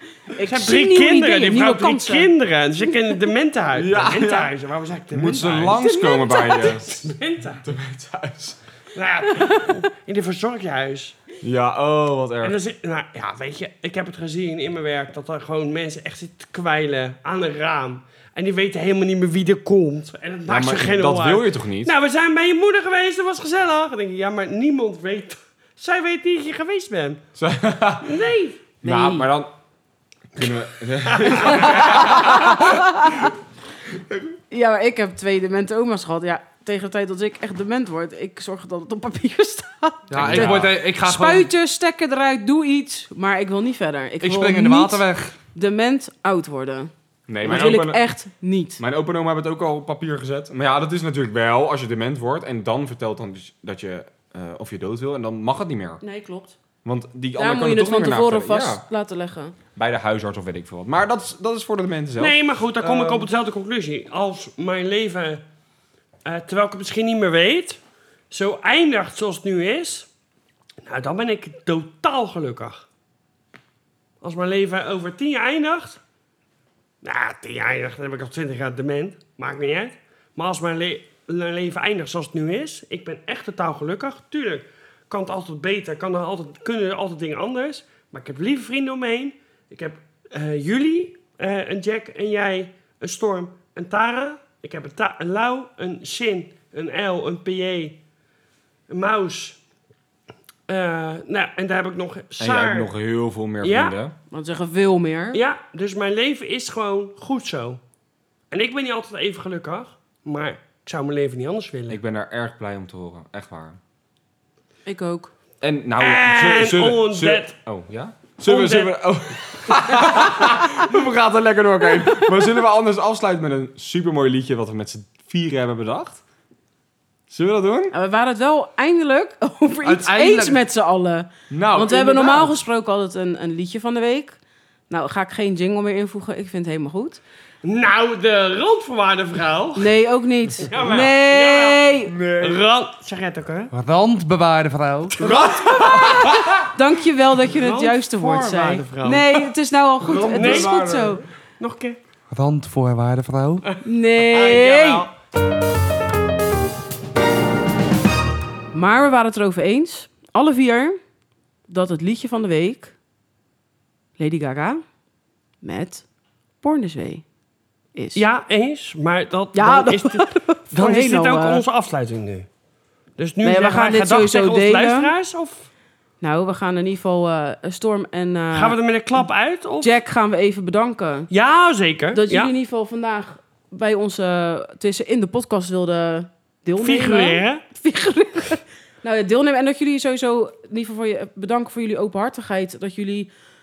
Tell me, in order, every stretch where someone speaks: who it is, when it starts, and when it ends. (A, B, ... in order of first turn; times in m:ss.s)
0:00.3-0:02.3 A
0:00.4-0:07.7 B
0:03.7-0:04.5 C
0:05.1-0:07.1 C
0:05.8-0:06.7 A
0:07.6-0:08.6 C
0:09.0-0:11.2 B
0:09.4-0:09.7 A
0:11.4-0:12.6 C
0:12.4-0:27.2 B
0:20.5-0:21.9 C
0:27.4-0:28.2 C
0:28.0-0:28.6 B
0:28.8-0:29.5 C
0:28.8-0:29.3 A
0:30.3-0:33.3 C
0:31.1-0:31.9 B
0:31.5-0:33.3 A
0:34.5-0:46.9 A
0:40.1-0:41.5 D
0:40.1-0:40.8 C
0:44.2-0:45.4 D
0:47.3-0:48.1 C
0:47.4-0:48.8 A
0:47.5-0:47.8 D
0:48.8-0:56.0 C
0:56.0-0:56.6 A
0:56.8-0:58.8 C
0:57.4-0:59.6 A
0:59.8-1:03.3 C
1:02.2-1:05.4 B
1:06.2-1:10.1 B
1:10.8-1:12.9 B
1:14.2-1:16.0 B
1:17.0-1:38.0 B
1:38.9-1:39.6 B
1:40.7-1:42.9 B
1:42.4-1:44.2 C
1:43.6-1:44.0 B
1:44.3-1:45.4 A
1:45.3-1:47.8 B
1:48.5-1:52.0 B
1:51.9-1:53.8 C
1:54.9-1:55.3 A
1:55.6-2:06.2 C
1:56.0-1:57.6 B
1:58.4-1:59.7 B
2:07.3-2:08.0 C
2:07.9-2:14.4 A
2:09.8-2:10.6 D
2:11.5-2:12.5 C
2:14.9-2:17.2 A
2:17.6-2:19.9 B
2:19.8-2:22.1 A
2:20.6-2:23.7 B
2:22.0-2:22.6 C
2:23.7-2:25.2 D
2:25.2-2:26.7 C
2:25.2-2:26.3 B
2:25.8-2:31.2 A
2:27.4-2:29.5 B
2:30.0-2:31.2 C
2:30.3-2:30.8 B
2:31.6-2:32.0 B
2:32.3-2:33.6 D
2:33.6-2:35.1 B
2:33.8-2:35.1 A
2:38.7-2:41.0 A
2:41.7-2:43.0 A
2:44.2-2:44.8 A
2:45.6-2:46.1 A
2:46.6-2:47.2 A
2:48.0-2:48.2 A
2:48.2-2:52.5 B
2:49.5-2:51.6 A
2:53.2-2:55.7 B
2:53.4-2:55.1 A
2:56.2-2:59.3 A
2:58.5-3:00.0 B
2:59.8-3:01.3 A
3:01.3-3:02.5 B
3:02.1-3:13.3 A
3:06.8-3:07.6 B